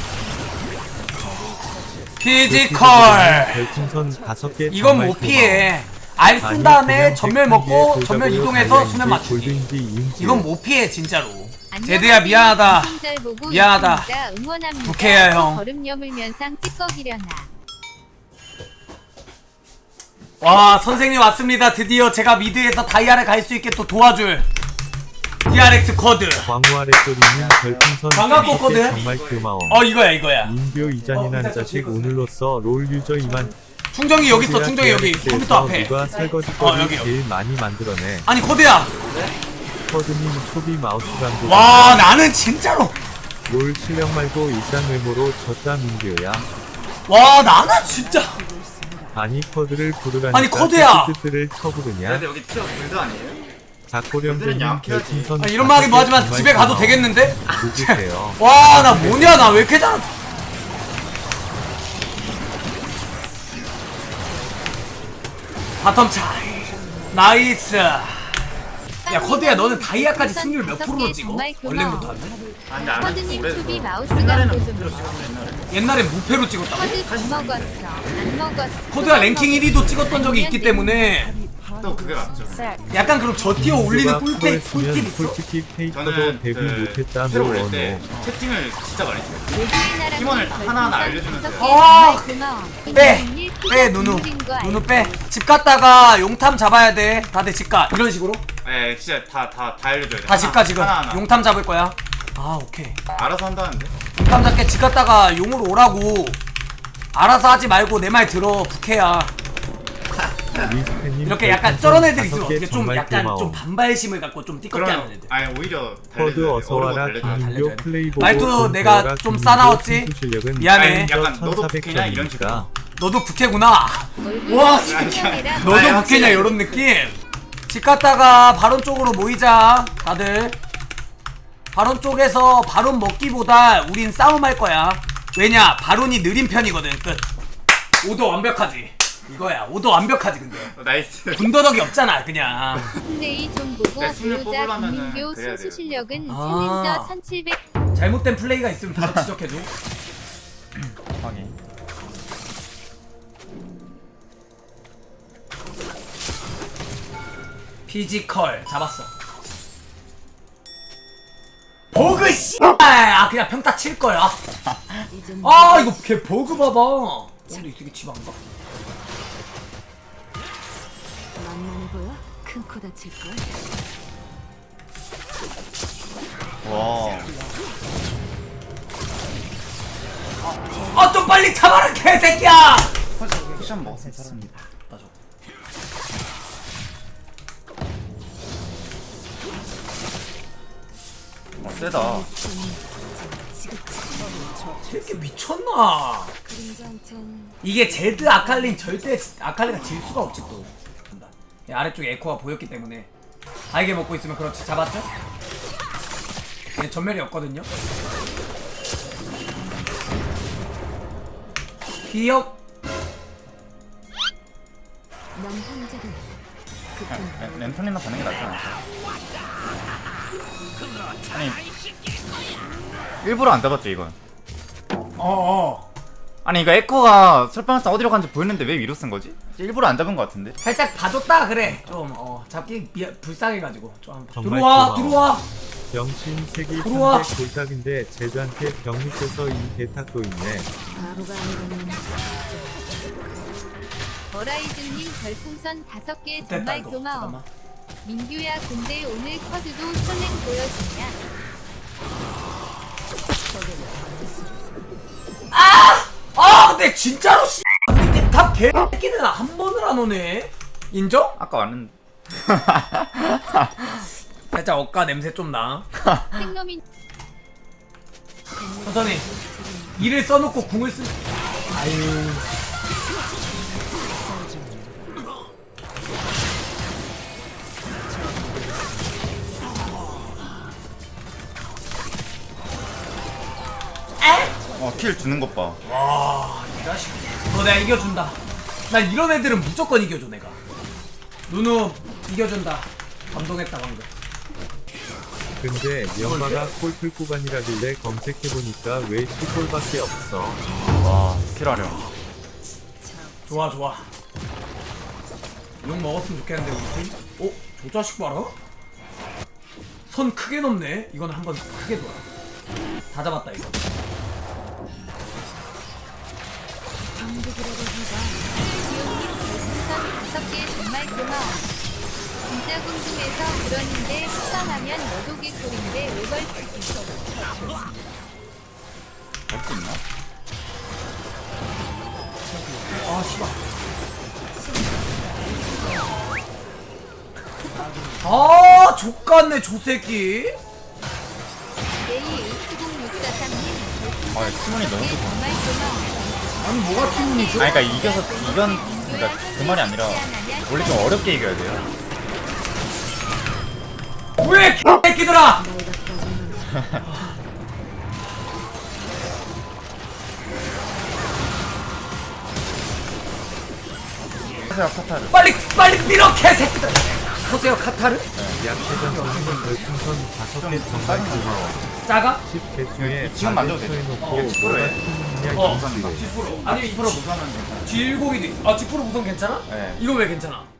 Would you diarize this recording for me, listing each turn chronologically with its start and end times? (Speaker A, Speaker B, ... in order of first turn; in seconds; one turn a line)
Speaker A: 2.2-3.8
Speaker B: 2.5-5.8
Speaker A: 4.7-14.1
Speaker B: 6.4-10.5
Speaker C: 11.7-17.5
Speaker A: 14.8-15.6
Speaker A: 20.4-24.4
Speaker A: 25.5-26.5
Speaker B: 26.4-29.9
Speaker D: 27.3-29.4
Speaker A: 28.1-29.1
Speaker A: 29.7-30.5
Speaker B: 30.4-33.5
Speaker D: 30.8-31.0
Speaker A: 31.1-32.3
Speaker A: 33.9-37.1
Speaker B: 34.2-38.3
Speaker A: 38.3-39.0
Speaker B: 39.9-42.2
Speaker A: 41.4-43.0
Speaker B: 43.5-46.5
Speaker A: 47.1-48.4
Speaker E: 48.3-49.1
Speaker B: 49.1-52.3
Speaker A: 50.3-51.1
Speaker D: 52.0-53.4
Speaker B: 53.9-59.6
Speaker D: 54.2-55.3
Speaker A: 55.4-60.1
Speaker A: 65.8-68.5
Speaker E: 66.6-67.2
Speaker C: 69.0-72.1
Speaker A: 69.1-72.4
Speaker D: 72.7-75.7
Speaker C: 72.7-75.2
Speaker A: 75.7-77.0
Speaker C: 76.7-81.0
Speaker D: 76.8-77.8
Speaker A: 78.9-81.4
Speaker E: 81.4-83.0
Speaker D: 81.8-82.9
Speaker A: 82.9-85.4
Speaker B: 83.5-88.1
Speaker D: 85.9-91.7
Speaker C: 89.5-95.1
Speaker A: 91.5-98.4
Speaker D: 98.6-101.3
Speaker A: 100.2-103.0
Speaker D: 103.1-103.9
Speaker A: 104.1-106.4
Speaker A: 107.1-109.3
Speaker D: 110.1-110.7
Speaker B: 110.5-113.6
Speaker A: 111.2-115.3
Speaker D: 114.7-117.5
Speaker B: 116.1-122.7
Speaker A: 117.2-121.1
Speaker D: 120.7-122.7
Speaker A: 123.0-130.6
Speaker C: 124.2-126.8
Speaker D: 124.8-126.6
Speaker A: 131.7-137.3
Speaker A: 138.0-140.7
Speaker D: 140.6-141.7
Speaker A: 141.3-142.9
Speaker C: 143.0-147.6
Speaker D: 144.0-146.0
Speaker A: 146.3-147.1
Speaker A: 147.9-149.7
Speaker D: 149.0-149.3
Speaker D: 150.8-151.6
Speaker A: 157.9-159.1
Speaker A: 161.9-164.4
Speaker D: 164.7-165.1
Speaker E: 165.1-166.1
Speaker A: 165.4-168.4
Speaker E: 171.3-173.6
Speaker D: 176.6-177.3
Speaker A: 180.9-182.9
Speaker D: 183.2-184.6
Speaker D: 191.6-192.3
Speaker E: 191.6-194.9
Speaker A: 194.8-196.3
Speaker E: 196.4-199.1
Speaker A: 197.6-203.1
Speaker A: 203.7-205.1
Speaker A: 206.7-207.7
Speaker A: 212.0-212.5
Speaker E: 215.3-216.3
Speaker E: 216.9-218.1
Speaker D: 217.1-218.8
Speaker D: 221.3-221.6
Speaker D: 223.2-224.2
Speaker A: 225.2-225.9
Speaker D: 226.4-230.6
Speaker A: 230.6-235.4
Speaker B: 234.3-235.4
Speaker B: 235.9-240.7
Speaker A: 236.8-237.3
Speaker E: 240.9-243.0
Speaker C: 244.3-247.4
Speaker A: 246.4-247.4
Speaker C: 248.0-251.2
Speaker A: 255.5-261.4
Speaker D: 261.4-264.0
Speaker A: 264.5-265.9
Speaker D: 266.0-266.4
Speaker C: 266.3-266.8
Speaker E: 268.6-270.1
Speaker A: 268.8-269.3
Speaker A: 269.9-271.2
Speaker A: 271.7-272.4
Speaker E: 274.3-274.9
Speaker A: 284.2-284.6
Speaker D: 284.7-285.8
Speaker A: 285.8-290.6
Speaker A: 291.5-294.1
Speaker B: 295.6-300.6
Speaker A: 296.2-296.7
Speaker E: 300.7-301.4
Speaker D: 300.9-302.1
Speaker E: 303.0-303.7
Speaker A: 303.5-304.1
Speaker A: 305.8-308.5
Speaker A: 310.1-312.2
Speaker A: 313.1-313.8
Speaker E: 317.1-318.6
Speaker C: 318.8-321.7
Speaker C: 322.5-327.0
Speaker E: 327.2-328.0
Speaker D: 329.5-330.0
Speaker A: 333.0-333.6
Speaker E: 334.6-336.2
Speaker A: 338.2-340.6
Speaker C: 342.0-346.2
Speaker D: 344.3-345.6
Speaker E: 346.0-347.0
Speaker D: 346.6-351.9
Speaker C: 346.8-351.5
Speaker A: 354.4-355.6
Speaker E: 355.6-357.4
Speaker A: 357.1-357.4
Speaker D: 364.7-365.4
Speaker A: 365.3-369.8
Speaker D: 368.3-368.7
Speaker B: 368.4-371.8
Speaker D: 370.6-371.8
Speaker A: 372.0-372.4
Speaker B: 372.4-376.3
Speaker D: 372.9-378.0
Speaker A: 374.2-374.5
Speaker A: 375.5-380.7
Speaker D: 379.7-380.0